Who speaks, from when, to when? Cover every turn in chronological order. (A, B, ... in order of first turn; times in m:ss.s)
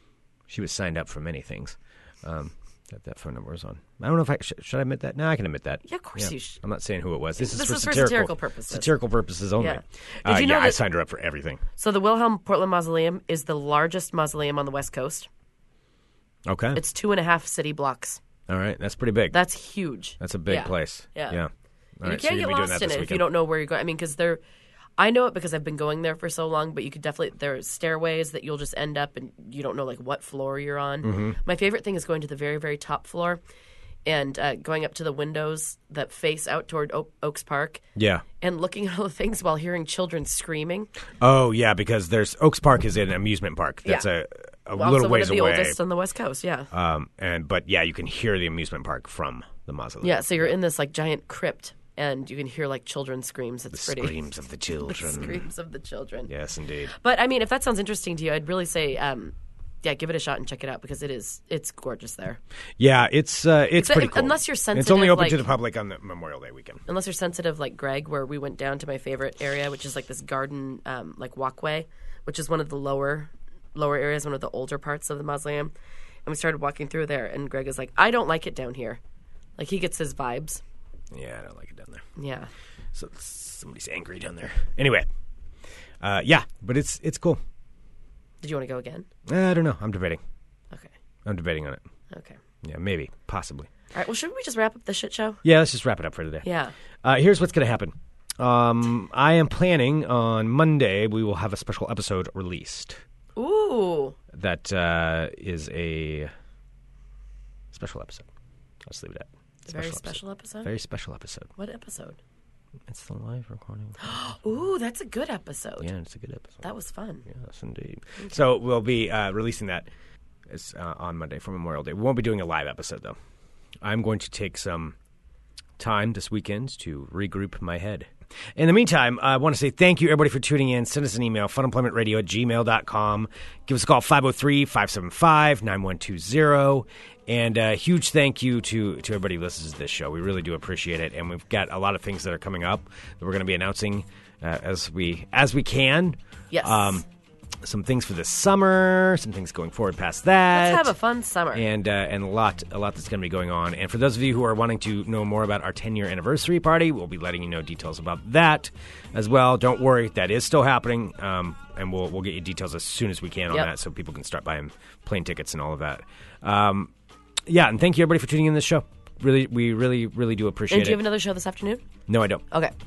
0:00.5-0:11.6 A
0:05.8-0:06.6 B
0:07.4-0:08.9 B
0:09.6-0:10.8 B
0:11.8-0:15.3 B
0:16.4-0:16.8 A
0:16.7-0:18.2 B
0:18.5-0:19.4 A
0:19.3-0:21.4 B
0:20.2-0:21.5 A
0:22.0-0:23.2 A
0:22.0-0:24.4 B
0:25.0-0:33.4 B
0:31.0-0:31.4 A
0:34.0-0:37.8 B
0:37.9-0:38.2 A
0:38.4-0:40.9 B
0:41.2-0:45.8 A
0:44.8-0:46.7 B
0:46.7-0:50.6 A
0:50.0-0:54.1 B
0:53.7-0:55.5 A
0:54.8-0:56.3 B
0:56.3-0:56.9 A
0:56.9-1:02.4 B
1:02.8-1:06.8 A
1:03.8-1:05.5 B
1:06.9-1:15.7 B
1:16.2-1:19.0 B
1:19.6-1:20.6 B
1:21.1-1:22.0 A
1:22.2-1:22.5 B
1:22.9-1:25.1 A
1:26.0-1:27.4 A
1:28.4-1:29.0 B
1:29.2-1:30.2 A
1:31.2-1:31.8 A
1:32.1-1:32.4 B
1:32.6-1:33.7 A
1:33.9-1:35.4 B
1:35.4-1:36.4 A
1:36.4-1:36.7 B
1:37.0-1:43.0 A
1:43.4-1:44.2 B
1:44.3-1:46.3 A
1:47.7-1:48.3 A
1:48.8-1:51.5 A
1:49.6-1:50.7 B
1:51.6-1:52.2 B
1:52.9-1:54.0 A
1:54.0-1:55.9 B
1:55.8-1:56.6 A
1:56.6-1:57.3 B
1:57.3-1:59.9 A
2:00.5-2:03.2 A
2:03.8-2:04.9 A
2:05.8-2:27.0 A
2:26.5-2:27.0 B
2:27.6-2:30.9 A
2:30.5-2:31.6 B
2:31.5-2:46.9 A
2:47.5-2:51.1 A
2:50.7-2:51.8 B
2:52.1-2:52.4 A